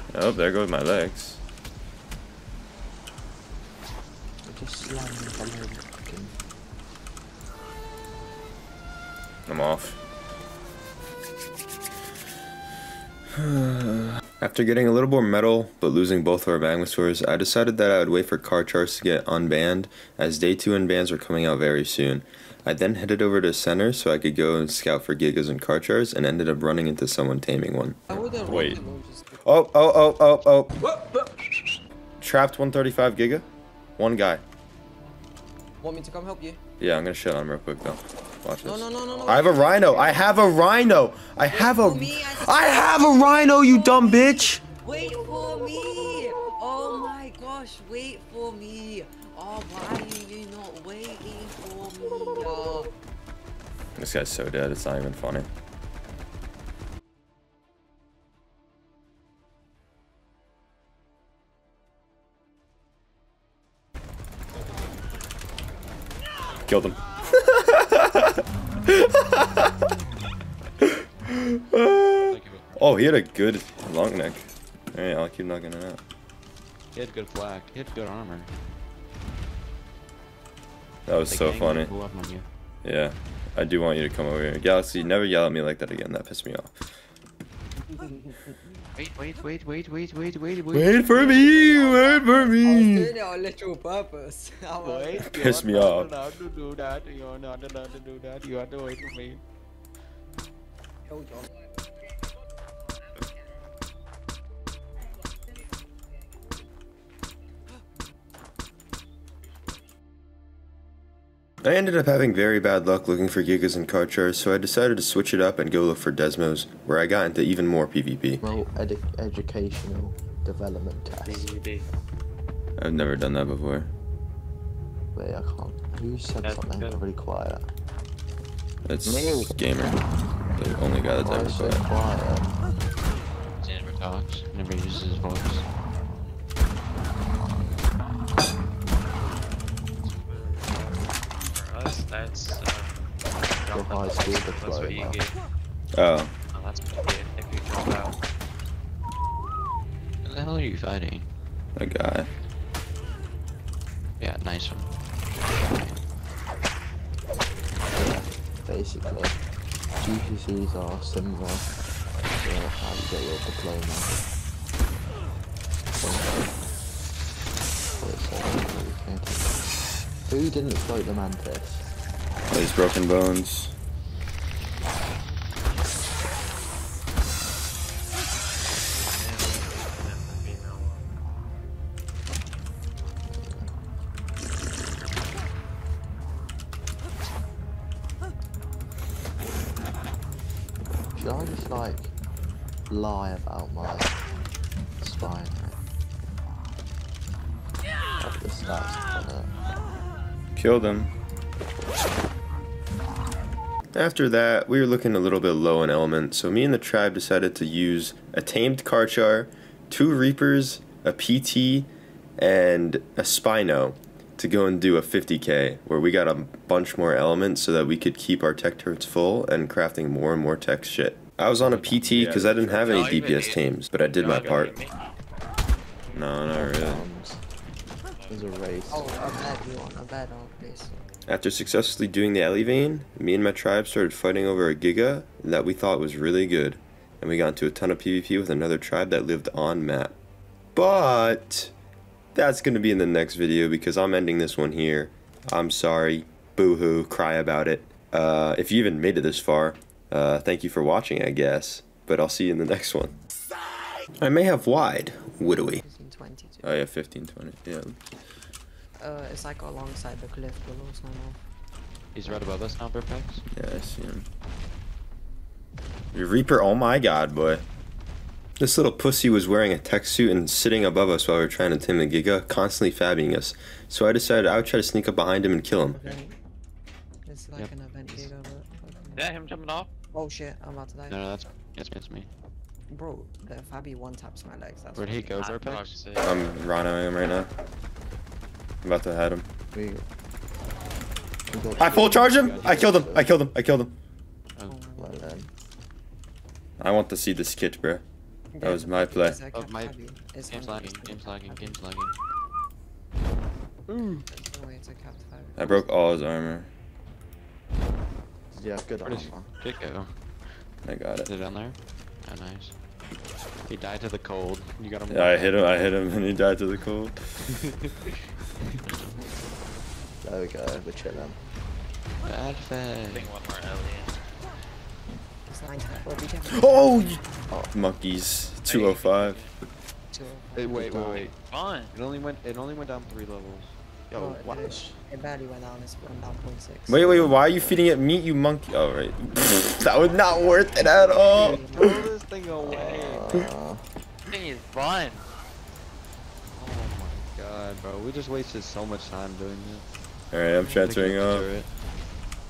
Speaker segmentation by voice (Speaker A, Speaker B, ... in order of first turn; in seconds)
Speaker A: 0.1-1.4, 9.5-10.0, 13.4-28.8, 29.4-30.8, 32.2-33.5, 34.0-34.4, 36.8-44.6, 54.0-55.5, 66.7-68.3, 68.9-69.7, 70.8-76.0, 81.1-81.9, 82.8-86.7, 90.7-93.1, 95.3-96.1, 111.6-118.4, 122.8-123.9, 128.9-130.0, 130.6-131.8, 145.9-146.3, 151.8-152.3, 172.5-173.7, 200.6-201.1, 203.9-224.8, 226.1-227.1, 231.3-240.2, 240.8-241.7, 242.3-253.2, 254.2-255.8, 256.6-258.0, 263.5-264.3, 266.1-267.6, 268.6-276.2, 286.2-287.5, 288.8-289.5, 291.8-293.9, 296.8-298.0, 298.6-299.4, 305.6-306.7, 310.9-311.3, 315.1-317.2, 326.5-327.2, 327.7-329.4, 336.9-341.9, 350.3-351.5
Speaker B: 4.5-6.4, 118.4-121.5, 125.1-127.7, 131.1-132.6, 143.7-145.2, 157.9-159.4, 160.0-161.7, 162.3-164.2, 166.0-166.6, 168.0-169.7, 170.3-171.9, 183.3-183.7, 191.2-192.1, 192.9-194.2, 195.0-195.7, 198.2-199.5, 226.5-227.4, 228.3-229.4, 289.7-290.1, 291.5-293.3, 295.0-295.5, 308.5-309.5, 320.2-321.4, 327.5-327.7, 330.7-331.3, 337.0-337.7, 342.5-343.9
Speaker C: 28.1-29.4, 30.8-31.4, 35.8-36.6, 38.6-40.4, 41.5-52.9, 87.9-88.6, 91.1-95.3, 101.1-101.8, 103.1-103.4, 228.9-231.1, 255.4-256.8, 259.0-261.4, 262.2-262.5, 275.9-276.4, 277.2-279.3, 280.1-281.3, 282.9-285.5, 294.7-295.5, 298.5-301.8, 304.3-305.9, 325.5-326.9, 330.1-331.1, 334.1-337.3, 340.2-342.0
Speaker D: 72.3-72.7, 77.0-78.5, 81.3-82.5, 89.0-90.8, 94.8-95.3, 96.4-99.4, 133.6-135.7, 150.2-151.3, 154.2-154.9, 155.4-156.0, 222.1-222.7, 262.1-263.4, 281.1-282.3, 285.0-286.0, 299.5-302.1, 309.1-310.1, 311.2-312.8, 313.7-315.5, 322.2-323.3, 330.6-331.3, 331.9-334.9, 341.3-343.3, 346.6-349.9, 350.6-351.7
Speaker E: 90.8-91.3, 95.7-97.3, 98.4-98.8, 121.2-121.9, 126.4-127.0, 140.0-145.3, 146.5-148.2, 179.0-181.0, 222.7-225.0, 228.2-228.6, 279.1-279.9, 285.3-286.3, 323.1-324.2, 328.7-329.5, 331.3-331.9, 342.7-343.4, 344.3-345.3